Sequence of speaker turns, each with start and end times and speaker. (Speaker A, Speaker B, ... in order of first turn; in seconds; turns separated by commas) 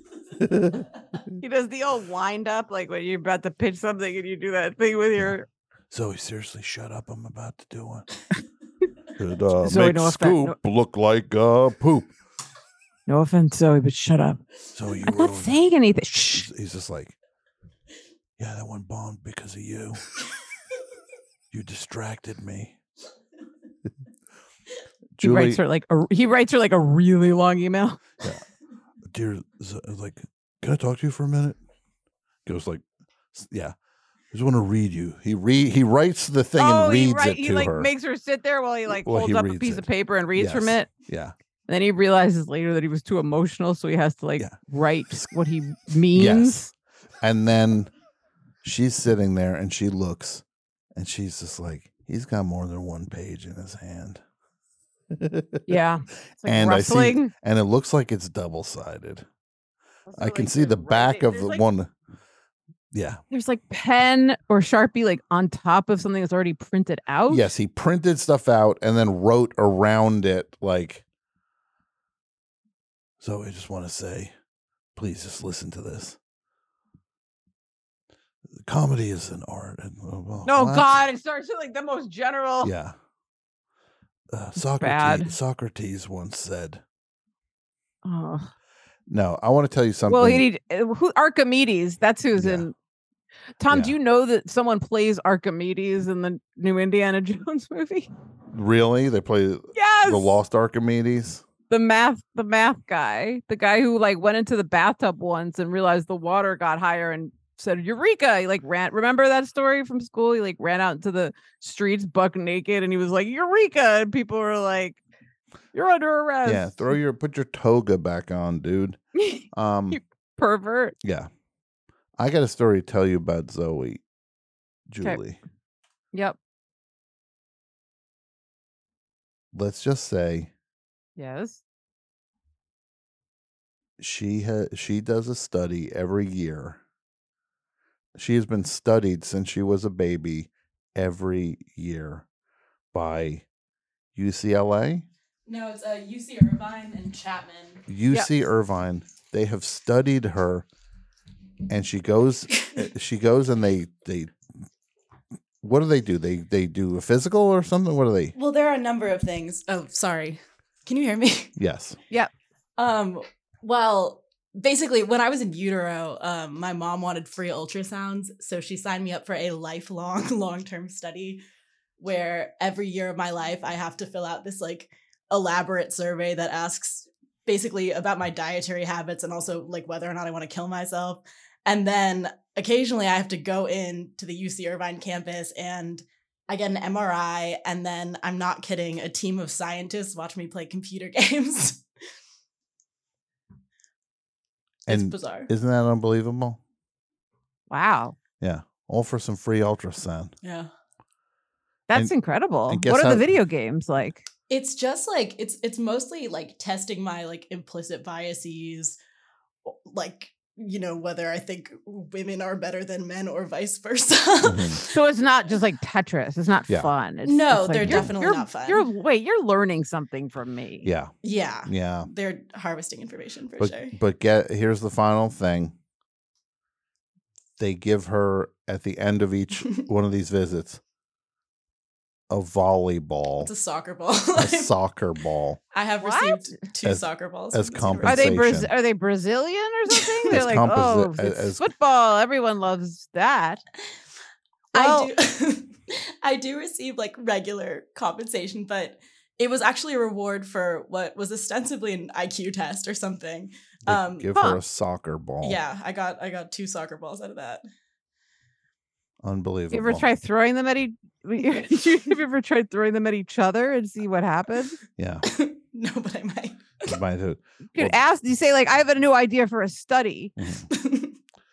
Speaker A: 0.4-0.9, Speaker B: 1.4-5.5, Speaker A: 5.9-8.1, Speaker A: 9.2-12.1, Speaker B: 9.6-10.6, Speaker B: 13.1-14.4, Speaker A: 14.7-15.6, Speaker B: 15.1-16.5, Speaker A: 16.3-17.1, Speaker A: 18.4-20.0, Speaker A: 21.5-22.8, Speaker A: 25.2-25.6, Speaker B: 25.2-28.0, Speaker A: 29.1-31.6, Speaker A: 32.5-33.8, Speaker A: 34.3-37.9, Speaker B: 36.6-40.9, Speaker A: 38.9-41.3, Speaker B: 41.7-46.7, Speaker A: 46.1-47.9, Speaker A: 48.6-50.4, Speaker A: 51.0-54.2, Speaker A: 55.1-55.7, Speaker B: 55.7-57.3, Speaker A: 56.4-59.3, Speaker B: 60.1-61.6, Speaker A: 60.1-61.9, Speaker A: 62.9-63.2, Speaker B: 63.3-67.5, Speaker A: 67.3-71.0, Speaker A: 73.2-74.3, Speaker A: 75.0-76.2, Speaker A: 78.6-81.0, Speaker B: 80.5-82.7, Speaker A: 82.6-83.0, Speaker A: 84.3-86.8, Speaker B: 84.6-85.3, Speaker B: 88.0-88.5, Speaker A: 89.1-90.5, Speaker B: 90.1-92.7, Speaker A: 92.4-92.7, Speaker B: 93.6-98.1, Speaker A: 93.7-94.0, Speaker A: 98.5-101.4, Speaker B: 99.8-100.3, Speaker B: 101.7-115.0, Speaker B: 115.7-116.9, Speaker A: 116.4-119.0, Speaker B: 119.2-121.0, Speaker A: 119.5-120.0, Speaker A: 121.0-121.3, Speaker A: 122.2-124.0, Speaker A: 124.9-125.4, Speaker A: 129.5-130.5, Speaker B: 131.2-131.6, Speaker A: 134.0-136.8, Speaker A: 138.2-142.2, Speaker A: 142.9-143.4, Speaker A: 144.2-145.1, Speaker C: 145.5-147.8, Speaker A: 147.9-150.7, Speaker A: 151.7-154.3, Speaker A: 155.6-158.3, Speaker C: 158.3-161.5, Speaker A: 161.6-162.0, Speaker C: 162.8-171.4, Speaker C: 172.0-191.8, Speaker C: 194.9-195.5, Speaker A: 194.9-196.6, Speaker B: 197.7-198.2, Speaker A: 198.4-200.3, Speaker C: 200.4-200.7, Speaker B: 201.9-204.3, Speaker A: 202.7-203.3, Speaker C: 204.5-209.0, Speaker C: 209.7-214.8, Speaker A: 214.4-214.8, Speaker B: 214.9-220.9, Speaker C: 217.2-218.8, Speaker A: 220.8-221.1, Speaker C: 221.2-224.0, Speaker A: 221.7-222.1, Speaker A: 223.6-225.8, Speaker A: 227.6-230.8, Speaker A: 232.3-233.5, Speaker C: 233.4-234.7, Speaker A: 234.3-235.6, Speaker C: 235.7-238.4, Speaker B: 236.0-236.6, Speaker A: 236.8-238.7, Speaker B: 238.0-243.6, Speaker C: 239.9-240.3, Speaker A: 240.3-241.7, Speaker B: 244.7-245.1, Speaker C: 244.7-254.3, Speaker A: 253.9-255.6, Speaker C: 255.4-257.6, Speaker A: 259.2-260.1, Speaker B: 259.7-264.8, Speaker A: 265.0-265.2, Speaker C: 265.2-266.9, Speaker A: 266.9-268.0, Speaker B: 267.8-270.3, Speaker A: 270.4-270.7, Speaker C: 270.7-271.1